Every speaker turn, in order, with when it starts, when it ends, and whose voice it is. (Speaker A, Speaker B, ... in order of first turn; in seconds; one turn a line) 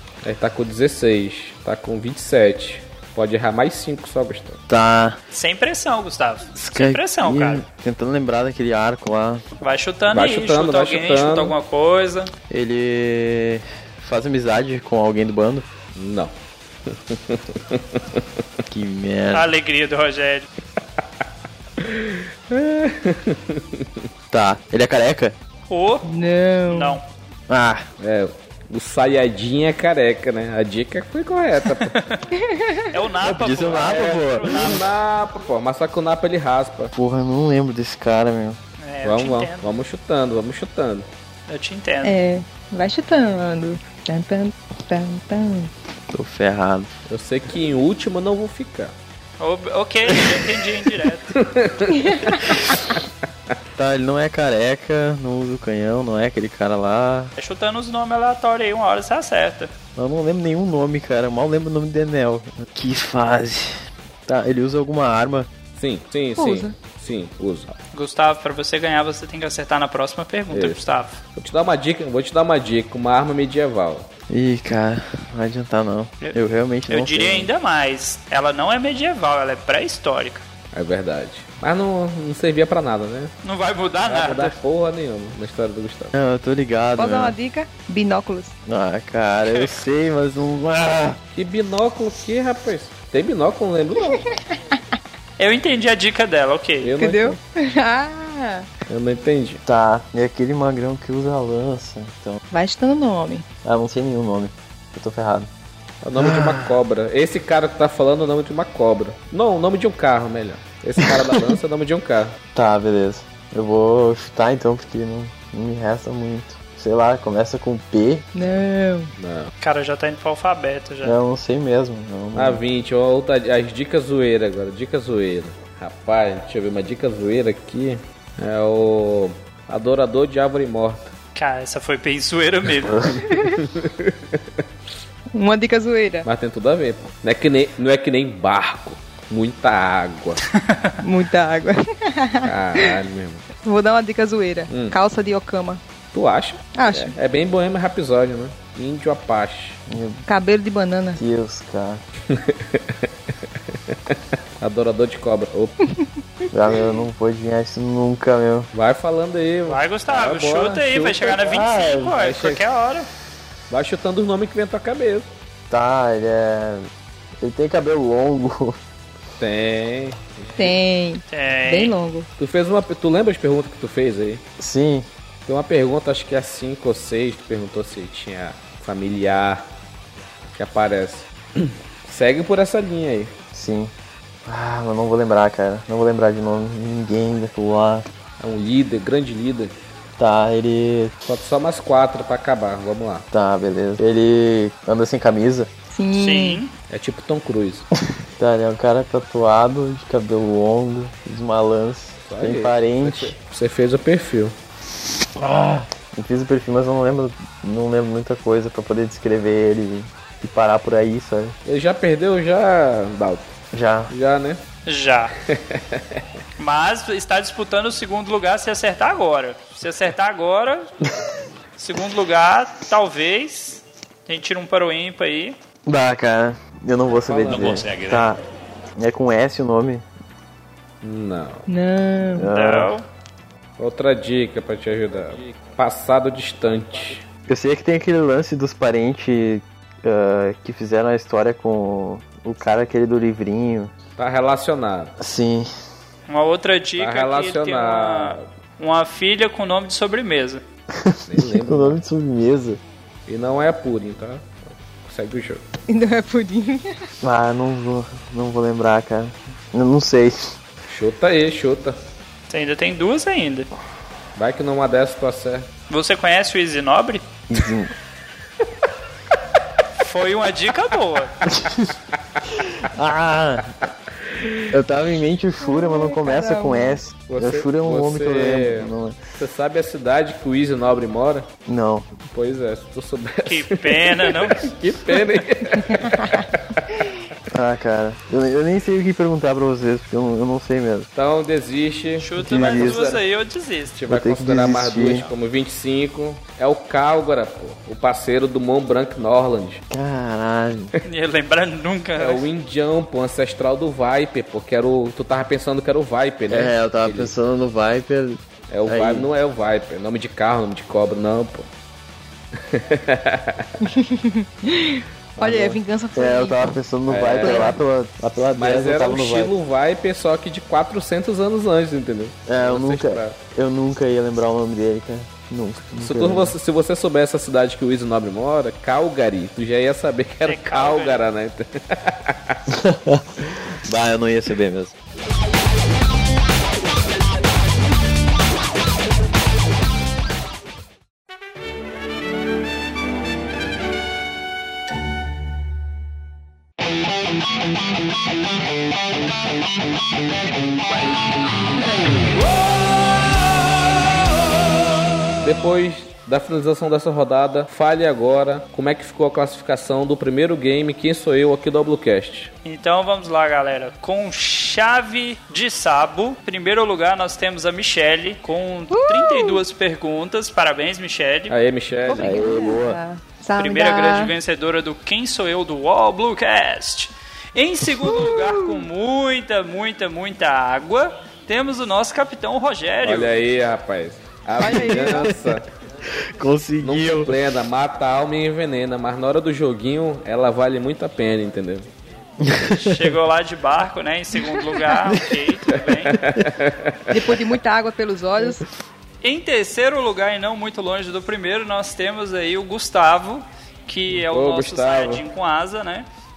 Speaker A: 0.2-4.6
Speaker B: 4.7-5.2
Speaker C: 5.3-7.6
Speaker B: 6.5-9.4
Speaker C: 9.6-12.3
Speaker A: 10.1-11.6
Speaker B: 12.5-15.7
Speaker A: 15.9-16.3
Speaker A: 16.9-18.2
Speaker B: 18.7-19.5
Speaker C: 19.3-20.5
Speaker A: 21.8-24.1
Speaker B: 24.3-25.4
Speaker C: 25.7-26.0
Speaker D: 26.0-27.0
Speaker C: 26.7-27.0
Speaker B: 27.5-27.9
Speaker A: 28.0-32.0
Speaker C: 31.9-32.2
Speaker D: 32.3-32.9
Speaker C: 32.9-34.8
Speaker B: 33.2-34.8
Speaker A: 33.7-36.9
Speaker B: 36.9-38.6
Speaker C: 38.8-39.7
Speaker A: 39.0-41.1
Speaker C: 41.5-42.2
Speaker D: 42.0-45.7
Speaker B: 46.1-46.9
Speaker A: 47.1-48.9
Speaker C: 49.4-51.3
Speaker A: 51.3-52.3
Speaker D: 51.9-52.5
Speaker B: 53.7-57.3
Speaker C: 57.4-59.7
Speaker B: 60.0-65.5
Speaker A: 65.8-67.7
Speaker D: 66.4-66.7
Speaker C: 67.9-71.2
Speaker A: 70.5-70.8
Speaker A: 71.3-74.1
Speaker B: 74.3-77.5
Speaker C: 76.9-80.4
Speaker A: 80.7-83.3
Speaker C: 83.4-84.5
Speaker A: 84.0-86.1
Speaker B: 86.1-87.3
Speaker D: 87.0-88.5
Speaker B: 88.7-91.2
Speaker C: 89.5-89.8
Speaker A: 91.3-94.2
Speaker C: 95.4-96.9
Speaker A: 96.8-97.4
Speaker D: 97.0-98.7
Speaker A: 98.9-99.6
Speaker B: 99.6-102.4
Speaker D: 102.5-103.5
Speaker B: 103.6-105.5
Speaker A: 106.0-112.4
Speaker B: 106.2-106.7
Speaker B: 111.0-111.5
Speaker B: 112.5-118.3
Speaker D: 118.3-119.1
Speaker A: 119.2-119.5
Speaker C: 119.6-121.2
Speaker B: 121.0-122.6
Speaker A: 122.3-131.1
Speaker C: 131.3-133.0
Speaker A: 133.1-134.6
Speaker D: 133.3-133.6
Speaker D: 135.3-136.2
Speaker A: 136.2-140.4
Speaker C: 140.6-140.9
Speaker D: 141.0-143.0
Speaker A: 142.4-143.4
Speaker D: 143.6-145.8
Speaker A: 144.7-144.9
Speaker A: 146.1-149.8
Speaker D: 146.7-147.2
Speaker B: 149.9-150.2
Speaker D: 150.3-151.2
Speaker B: 151.2-152.0
Speaker A: 152.3-153.1
Speaker A: 153.9-155.8
Speaker B: 156.5-158.7
Speaker A: 158.7-162.6
Speaker C: 159.7-163.1
Speaker B: 161.4-162.2
Speaker A: 163.7-165.3
Speaker B: 165.7-166.9
Speaker B: 167.4-168.8
Speaker A: 169.4-170.8
Speaker D: 170.6-172.3
Speaker C: 171.3-171.9
Speaker A: 172.4-174.4
Speaker B: 174.6-175.1
Speaker A: 175.4-179.7
Speaker A: 180.5-183.3
Speaker B: 183.5-183.9
Speaker B: 184.4-188.1
Speaker A: 188.4-189.7
Speaker B: 190.2-191.1
Speaker A: 191.2-193.3
Speaker B: 193.3-195.7
Speaker D: 195.9-196.6
Speaker C: 196.2-196.7
Speaker A: 196.9-197.8
Speaker B: 198.4-203.3
Speaker A: 202.2-204.6
Speaker B: 205.4-211.6
Speaker A: 211.6-213.5
Speaker B: 213.7-214.1
Speaker A: 214.1-214.6
Speaker C: 214.8-215.3
Speaker A: 215.4-216.2
Speaker C: 216.6-220.9
Speaker C: 221.8-225.6
Speaker B: 225.8-228.4
Speaker A: 227.1-228.2
Speaker B: 228.9-230.0
Speaker A: 231.0-231.7
Speaker D: 231.7-232.5
Speaker B: 232.4-232.9
Speaker C: 232.5-233.1
Speaker A: 233.8-237.2
Speaker B: 237.5-243.9
Speaker A: 244.2-245.2
Speaker B: 245.2-245.7
Speaker C: 246.3-250.6
Speaker A: 247.0-248.4
Speaker B: 251.0-252.8
Speaker A: 251.3-252.0
Speaker A: 253.2-255.6
Speaker D: 255.9-257.0
Speaker B: 257.2-260.5
Speaker A: 260.9-262.0
Speaker C: 262.5-263.7
Speaker A: 264.4-265.7
Speaker C: 265.9-267.2
Speaker B: 267.5-267.9
Speaker C: 269.9-271.4
Speaker B: 271.5-271.9
Speaker B: 272.6-273.8
Speaker A: 274.2-274.6
Speaker B: 274.7-279.1
Speaker D: 275.6-277.0
Speaker A: 277.3-281.5
Speaker B: 281.6-282.1
Speaker A: 282.2-287.0
Speaker C: 283.4-284.6
Speaker B: 287.5-291.1
Speaker A: 291.1-293.2
Speaker C: 292.2-294.0
Speaker B: 292.4-293.0
Speaker A: 293.9-299.8
Speaker B: 294.1-295.3
Speaker B: 299.9-300.9
Speaker C: 301.0-302.4
Speaker A: 302.2-307.3
Speaker B: 306.5-309.3
Speaker A: 308.7-311.7
Speaker A: 312.6-313.8
Speaker D: 313.8-316.7
Speaker A: 315.4-315.8
Speaker B: 316.1-319.5
Speaker A: 317.1-317.8
Speaker D: 317.4-317.7
Speaker A: 318.5-323.4
Speaker B: 322.5-326.5
Speaker A: 325.9-332.6
Speaker C: 330.4-331.2
Speaker B: 332.7-334.9
Speaker A: 355.4-362.5
Speaker C: 362.6-371.6
Speaker D: 368.9-369.6
Speaker A: 371.5-372.6
Speaker D: 372.1-374.3
Speaker B: 372.2-373.0
Speaker C: 373.6-383.4
Speaker D: 378.1-378.7
Speaker A: 383.0-385.7
Speaker D: 384.6-385.4
Speaker B: 384.9-385.2
Speaker B: 386.0-387.3
Speaker A: 386.8-391.9
Speaker B: 392.4-393.1
Speaker C: 392.7-396.2
Speaker B: 394.4-395.4
Speaker A: 396.1-397.1
Speaker B: 396.2-396.5
Speaker D: 397.1-398.6
Speaker C: 399.2-406.1
Speaker A: 404.1-405.2